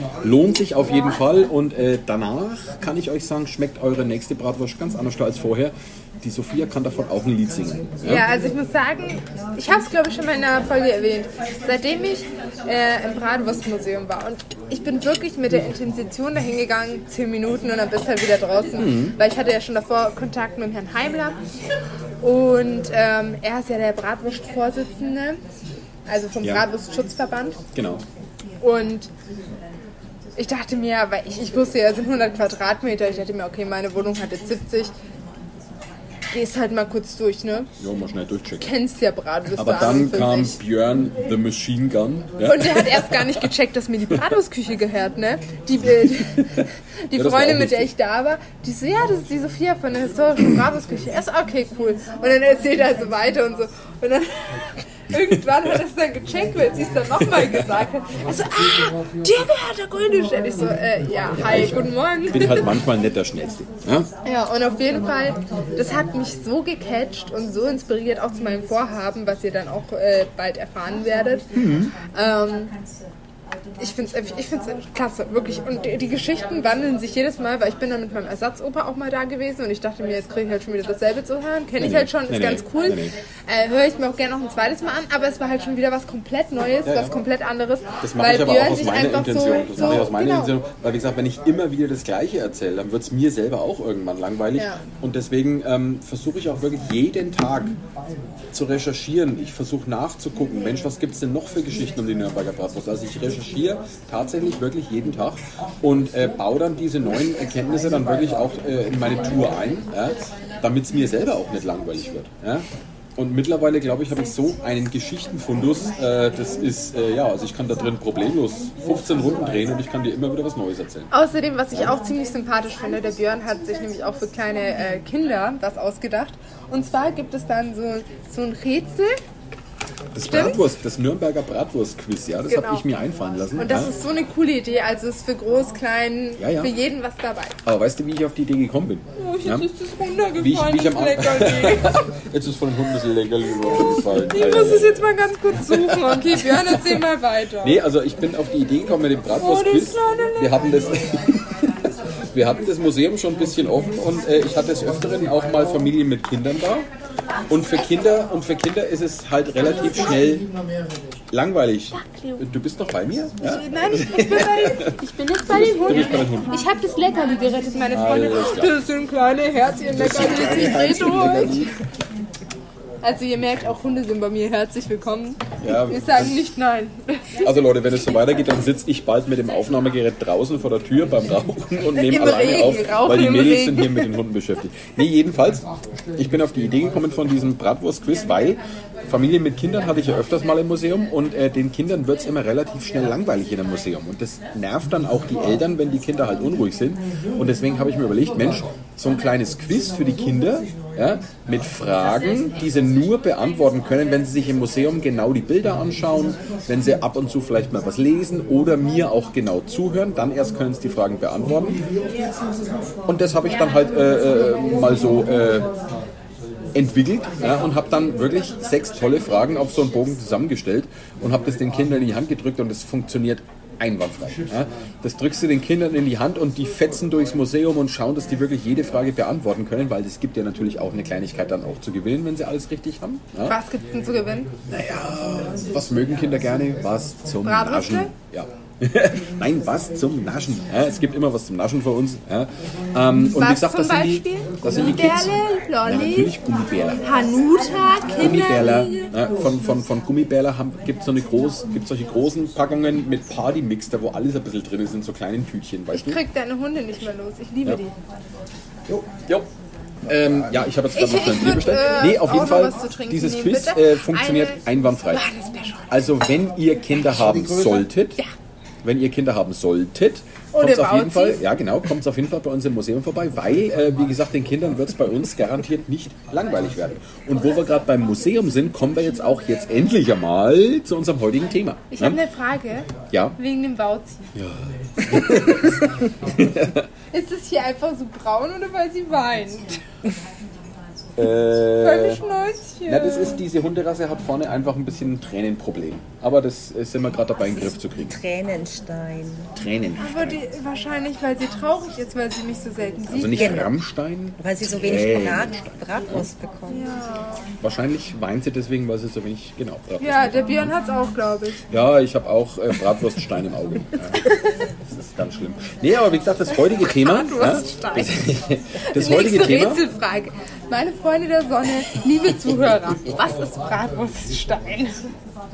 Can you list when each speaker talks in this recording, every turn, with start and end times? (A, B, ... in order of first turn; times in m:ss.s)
0:00.2-0:08.3 A
0:08.0-0:21.4 B
0:18.8-0:19.2 A
0:22.2-0:25.4 B
0:26.1-0:27.6 B
0:27.7-0:28.0 A
0:28.6-0:29.1 B
0:30.4-0:34.9 B
0:36.3-0:37.7 B
0:37.8-0:38.7 A
0:38.6-0:40.6 B
0:39.6-0:43.4 A
0:42.4-0:54.3 B
0:47.1-0:47.9 A
0:55.1-1:02.7 B
0:57.2-0:57.6 A
1:01.4-1:04.1 A
1:04.2-1:11.4 B
1:11.5-1:11.9 A
1:12.1-1:12.7 B
1:13.8-1:30.6 B
1:21.8-1:23.1 A
1:26.8-1:27.1 A
1:28.0-1:37.8 A
1:34.6-1:34.8 B
1:38.5-1:52.6 A
1:53.2-2:01.1 A
2:01.1-2:09.2 B
2:10.1-2:13.9 A
2:10.2-2:10.6 B
2:12.5-2:12.8 B
2:13.6-2:17.6 B
2:16.4-2:16.7 A
2:17.6-2:19.7 A
2:19.2-2:22.1 B
2:20.4-2:27.0 A
2:24.3-2:27.8 B
2:27.6-2:31.5 A
2:29.3-2:30.6 B
2:32.3-2:36.9 A
2:37.5-2:40.5 A
2:41.3-2:45.0 A
2:41.9-2:42.4 B
2:43.4-2:51.7 B
2:45.5-2:46.6 A
2:47.9-2:48.7 A
2:49.9-2:51.7 A
2:53.0-2:57.4 B
2:55.6-2:56.4 A
2:57.4-3:31.8 A
3:01.9-3:04.1 B
3:33.1-3:35.7 A
3:36.7-3:53.6 A
3:53.5-3:54.5 B
3:54.7-4:07.0 A
3:57.4-3:58.1 B
4:03.3-4:06.3 B
4:07.0-4:09.1 B
4:08.2-4:16.2 A
4:15.9-4:17.9 B
4:18.9-4:19.5 A
4:20.0-4:25.2 A
4:20.9-4:26.0 B
4:25.9-4:28.2 A
4:28.8-4:42.2 A
4:30.5-4:31.4 B
4:41.9-4:44.3 B
4:43.1-4:43.4 A
4:44.3-4:46.9 A
4:47.1-4:49.8 B
4:51.2-4:52.2 A
4:51.8-4:53.4 B
4:52.9-4:58.2 A
4:58.1-4:59.5 C
4:59.6-5:00.4 A
5:00.0-5:03.6 B
5:03.1-5:06.3 A
5:03.2-5:03.8 C
5:04.4-5:06.8 C
5:06.7-5:07.4 B
5:07.6-5:10.7 A
5:10.0-5:11.6 B
5:11.7-5:14.3 A
5:14.2-5:14.6 B
5:14.8-5:19.8 A
5:16.8-5:18.2 B
5:18.8-5:25.1 B